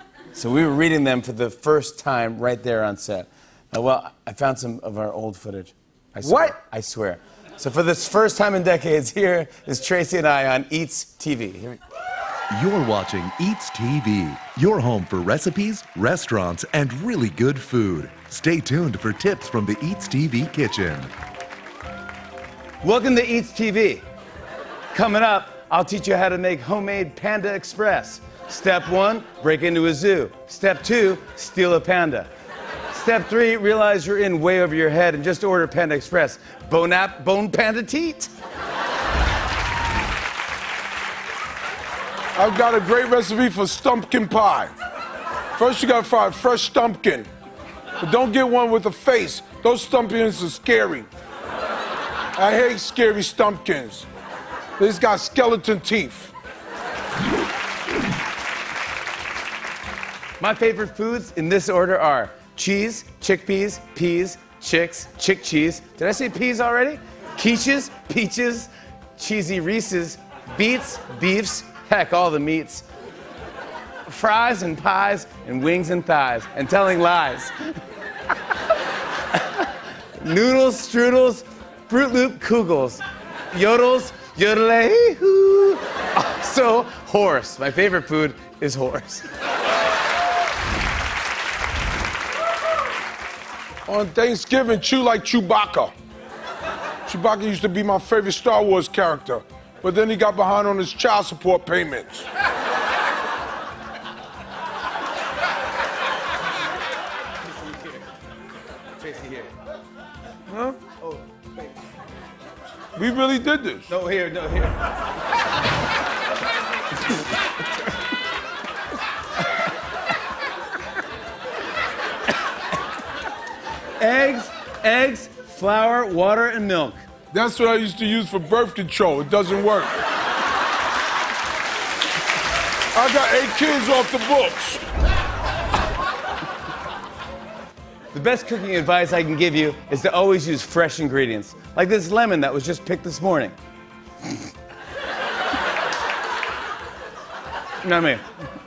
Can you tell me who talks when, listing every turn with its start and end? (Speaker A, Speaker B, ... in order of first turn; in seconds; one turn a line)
Speaker A: 0.3-11.8
Speaker B: 6.2-6.5
Speaker C: 12.5-21.1
Speaker A: 22.8-24.1
Speaker A: 24.9-32.3
Speaker A: 32.9-38.3
Speaker B: 42.4-44.7
Speaker B: 45.6-47.3
Speaker B: 48.0-51.1
Speaker B: 52.4-54.1
Speaker B: 54.8-56.3
Speaker A: 60.4-72.9
Speaker A: 74.1-77.8
Speaker A: 79.3-89.3
Speaker B: 93.9-95.9
Speaker B: 97.1-102.3
Speaker A: 109.0-109.5
Speaker B: 110.5-110.8
Speaker A: 110.9-111.6
Speaker B: 113.0-113.9
Speaker A: 113.9-114.8
Speaker A: 124.0-127.0
Speaker B: 127.3-129.9
Speaker B: 132.9-134.8
Speaker A: 138.1-143.6
Speaker A: 147.8-148.2